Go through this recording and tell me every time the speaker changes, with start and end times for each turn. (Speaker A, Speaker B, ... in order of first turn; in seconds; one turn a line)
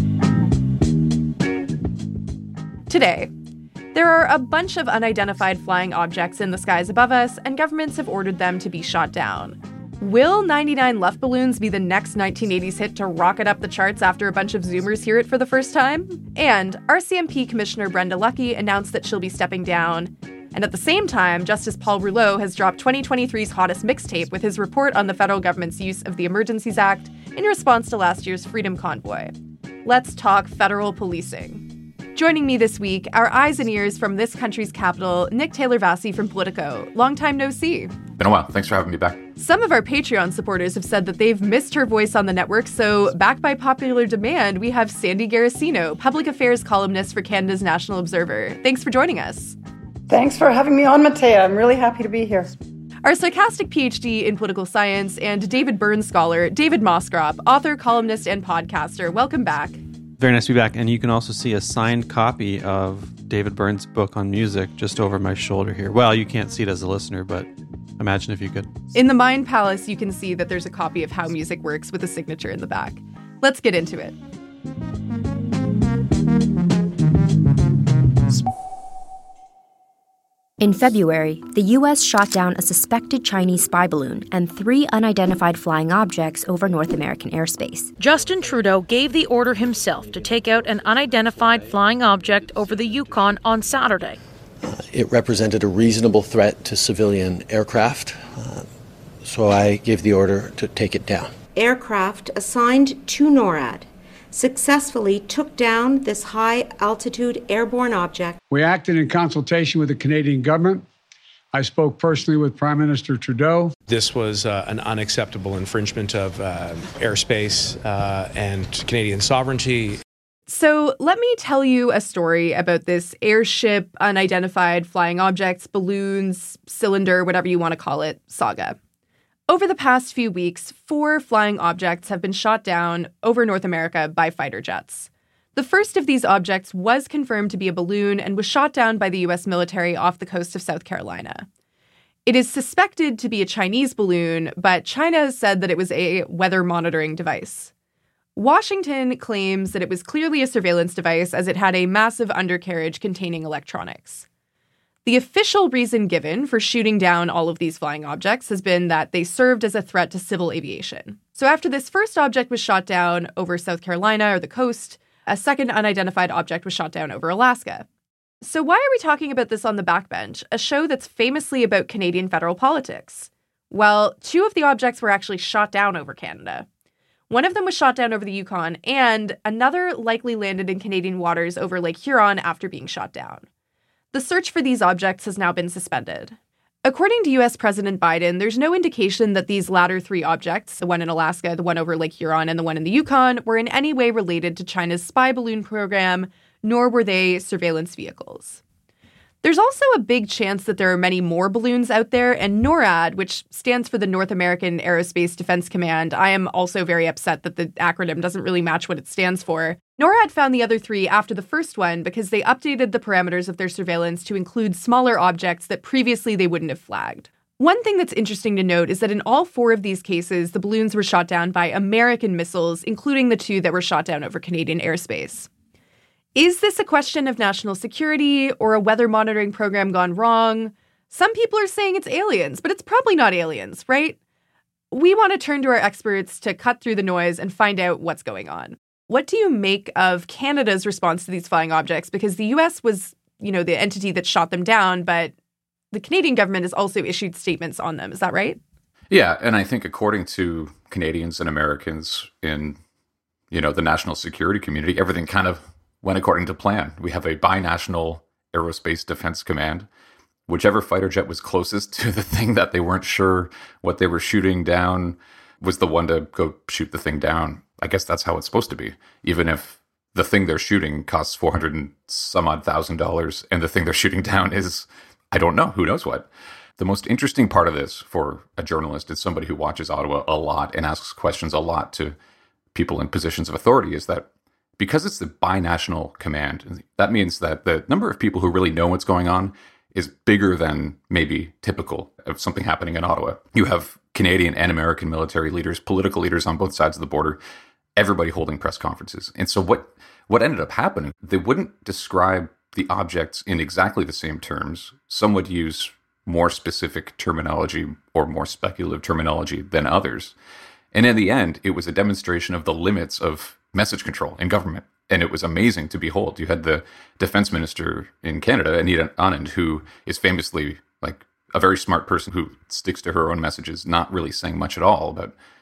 Speaker A: 2.9-3.3
Speaker A: 3.9-29.3
Speaker A: 29.8-37.9
Speaker B: 38.2-39.2
Speaker A: 39.4-49.5
Speaker C: 50.1-52.5
Speaker A: 53.0-59.8
Speaker D: 60.2-68.7
Speaker A: 68.9-74.1
Speaker E: 80.6-87.9
Speaker F: 88.0-94.2
Speaker G: 94.6-98.7
Speaker G: 99.2-101.3
Speaker H: 101.5-108.4
Speaker I: 108.5-110.8
Speaker I: 111.5-113.7
Speaker J: 113.9-120.0
Speaker A: 120.5-128.8
Speaker A: 129.5-141.4
Speaker A: 142.2-147.7
Speaker A: 148.3-154.2
Speaker A: 155.0-167.8
Speaker A: 168.4-176.7
Speaker A: 177.3-183.4
Speaker A: 184.1-198.6
Speaker A: 199.4-225.5
Speaker A: 226.3-234.2
Speaker A: 234.9-245.3
Speaker A: 245.9-248.6
Speaker B: 249.1-252.8
Speaker B: 253.5-259.9
Speaker B: 260.5-276.3
Speaker B: 276.8-282.1
Speaker B: 282.7-284.3
Speaker B: 284.8-297.4
Speaker B: 297.9-310.3
Speaker B: 310.9-325.3